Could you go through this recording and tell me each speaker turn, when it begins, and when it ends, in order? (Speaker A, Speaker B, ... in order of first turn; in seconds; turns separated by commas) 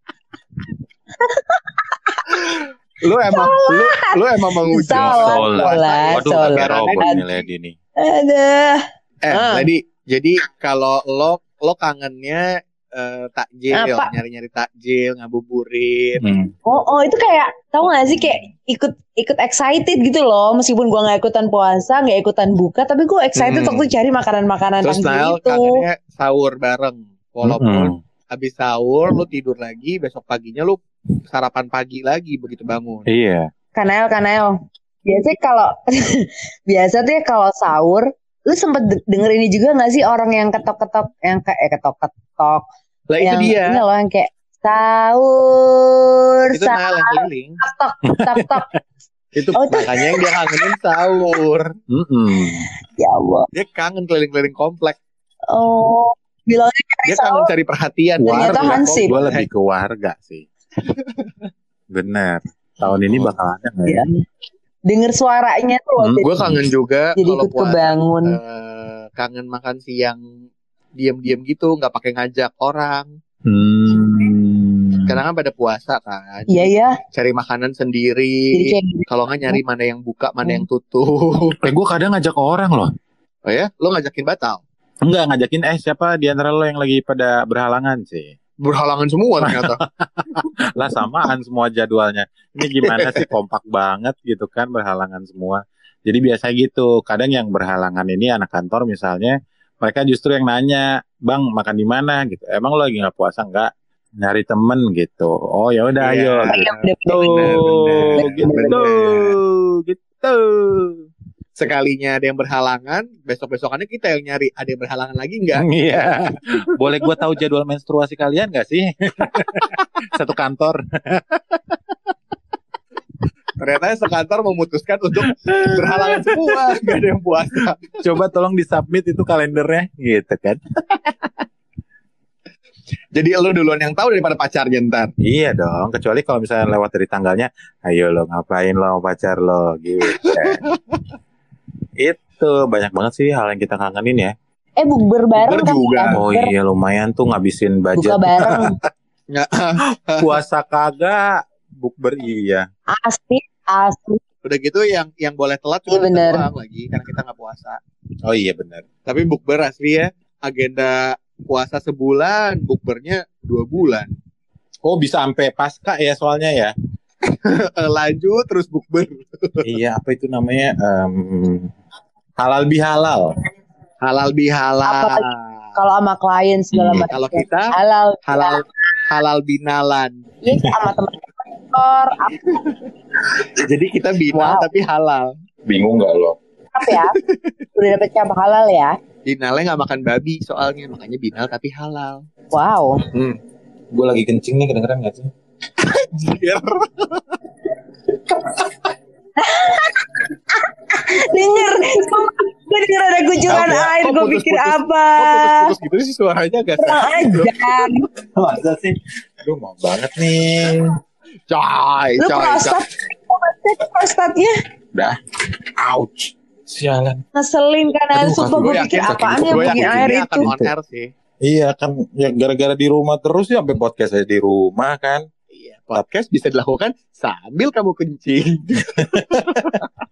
Speaker A: 1.2-1.8, Speaker B: 2.3-7.1, Speaker A: 3.2-7.4, Speaker C: 4.9-7.8, Speaker A: 8.0-9.7, Speaker B: 9.2-12.4, Speaker B: 12.9-16.2, Speaker A: 13.7-14.1, Speaker C: 16.2-16.5, Speaker A: 16.6-25.8, Speaker B: 23.4-23.9, Speaker B: 24.8-33.0, Speaker C: 27.4-27.9, Speaker C: 33.1-33.5, Speaker A: 33.7-42.6, Speaker B: 43.1-43.8, Speaker A: 43.2-48.7, Speaker B: 46.5-47.6, Speaker C: 48.1-48.6, Speaker C: 49.4-50.0, Speaker B: 49.4-51.7, Speaker A: 49.5-50.0, Speaker C: 51.9-52.6, Speaker A: 53.0-53.5, Speaker B: 53.5-55.0, Speaker A: 55.5-57.5, Speaker B: 57.0-59.5, Speaker C: 58.2-60.4, Speaker A: 58.2-59.1, Speaker B: 60.9-61.3, Speaker C: 61.9-64.0, Speaker B: 62.8-63.3, Speaker A: 63.9-64.2, Speaker A: 64.9-66.3, Speaker C: 66.0-66.5, Speaker B: 66.2-70.2, Speaker A: 67.2-68.4, Speaker B: 71.0-73.1, Speaker C: 73.5-75.2, Speaker B: 75.1-81.6, Speaker A: 76.5-77.0, Speaker A: 78.5-79.6, Speaker C: 81.6-82.9, Speaker B: 83.4-84.6, Speaker C: 85.0-88.3, Speaker B: 88.6-89.8, Speaker C: 89.5-103.7, Speaker B: 92.6-93.3, Speaker C: 104.2-111.0, Speaker B: 106.0-109.3, Speaker A: 106.5-107.5, Speaker A: 108.1-108.8, Speaker B: 111.6-115.7, Speaker C: 115.6-121.8, Speaker B: 123.6-127.9, Speaker C: 125.4-126.8, Speaker C: 128.0-131.0, Speaker B: 133.1-135.1, Speaker C: 135.2-140.6, Speaker B: 140.2-141.0, Speaker C: 142.0-144.3, Speaker A: 144.8-146.5, Speaker B: 145.4-146.2, Speaker C: 146.1-148.7, Speaker A: 147.9-148.8, Speaker B: 149.3-150.3, Speaker C: 150.2-152.6, Speaker A: 152.9-154.2, Speaker B: 154.4-157.8, Speaker A: 155.9-156.5, Speaker C: 158.2-158.8, Speaker B: 159.1-164.1, Speaker C: 164.8-166.7, Speaker B: 167.4-169.7, Speaker C: 169.6-171.7, Speaker C: 172.4-173.3, Speaker B: 174.0-175.6, Speaker A: 174.9-178.6, Speaker C: 176.7-177.1, Speaker B: 177.1-177.7, Speaker B: 178.3-180.2, Speaker A: 180.4-182.3, Speaker B: 182.4-185.3, Speaker A: 184.3-184.7, Speaker C: 185.7-186.4, Speaker A: 186.7-187.2, Speaker B: 186.9-187.5, Speaker A: 187.8-188.9, Speaker B: 189.2-192.2, Speaker A: 192.5-193.0, Speaker B: 193.1-193.4, Speaker C: 193.9-195.3, Speaker B: 195.8-197.4, Speaker A: 199.4-200.2, Speaker A: 200.9-205.7, Speaker B: 203.5-207.6, Speaker A: 206.8-208.1, Speaker C: 208.4-210.9, Speaker B: 211.5-212.8, Speaker A: 212.2-214.5, Speaker C: 215.8-217.2, Speaker A: 217.3-220.5, Speaker C: 218.1-220.7, Speaker B: 218.5-221.1, Speaker C: 221.4-225.2, Speaker B: 225.5-229.8, Speaker C: 229.0-229.8